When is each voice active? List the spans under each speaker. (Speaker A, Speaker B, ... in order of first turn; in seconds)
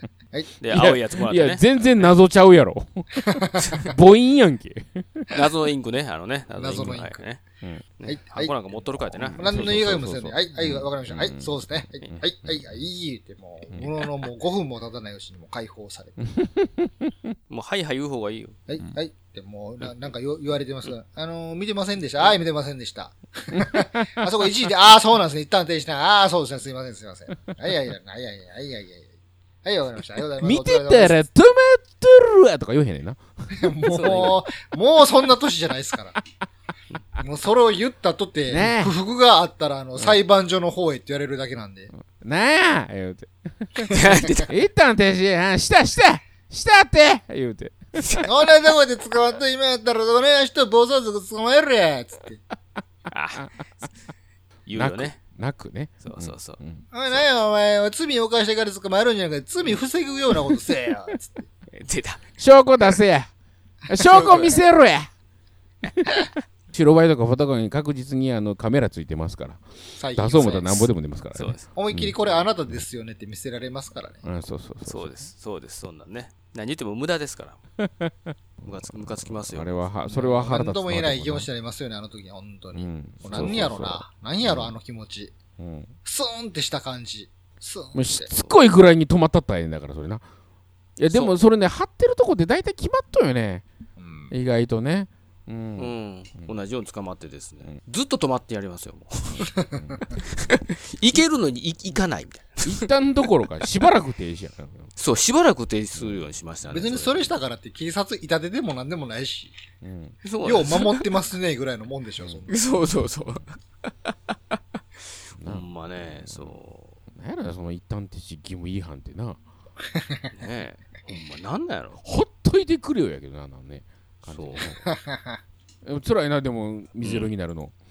Speaker A: 0.6-2.1, 5.3-7.4, 8.0-9.5, 17.5-18.6, 33.9-34.5, 43.9-44.5, 53.1-53.5, 54.7-55.2, 56.0-57.2, 61.7-62.2, 71.3-71.7, 74.8-77.6, 78.6-80.0, 91.1-91.4, 95.8-99.5, 100.5-102.9, 105.0-107.3, 110.2-111.1, 112.5-113.6, 115.5-117.0, 120.3-122.0, 124.3-124.7, 127.0-127.3
Speaker B: 0.7-5.3, 9.2-12.6, 13.7-14.0, 16.4-17.1, 30.4-33.7, 38.5-38.9, 42.1-48.2, 54.8-56.8, 62.4-63.3, 63.9-65.1, 66.7-72.2, 74.2-75.3, 77.8-81.5, 82.7-84.7, 85.6-85.9, 87.9-90.2, 91.0-93.6, 94.3-96.5, 99.8-100.1, 102.6-104.9, 106.0-106.2, 109.8-110.2, 112.2-113.1, 115.4-116.6, 117.1-119.4, 122.0-124.8, 125.8-127.7
Speaker C: 3.2-3.6, 6.6-7.1, 8.1-8.5, 9.4-16.2, 18.7-31.2, 33.7-36.2, 37.2-41.9, 48.3-52.4, 56.9-61.5, 70.0-70.8, 71.7-74.2, 80.1-85.3, 86.0-88.4, 94.0-94.3, 106.7-109.5, 110.4-112.5, 124.8-125.4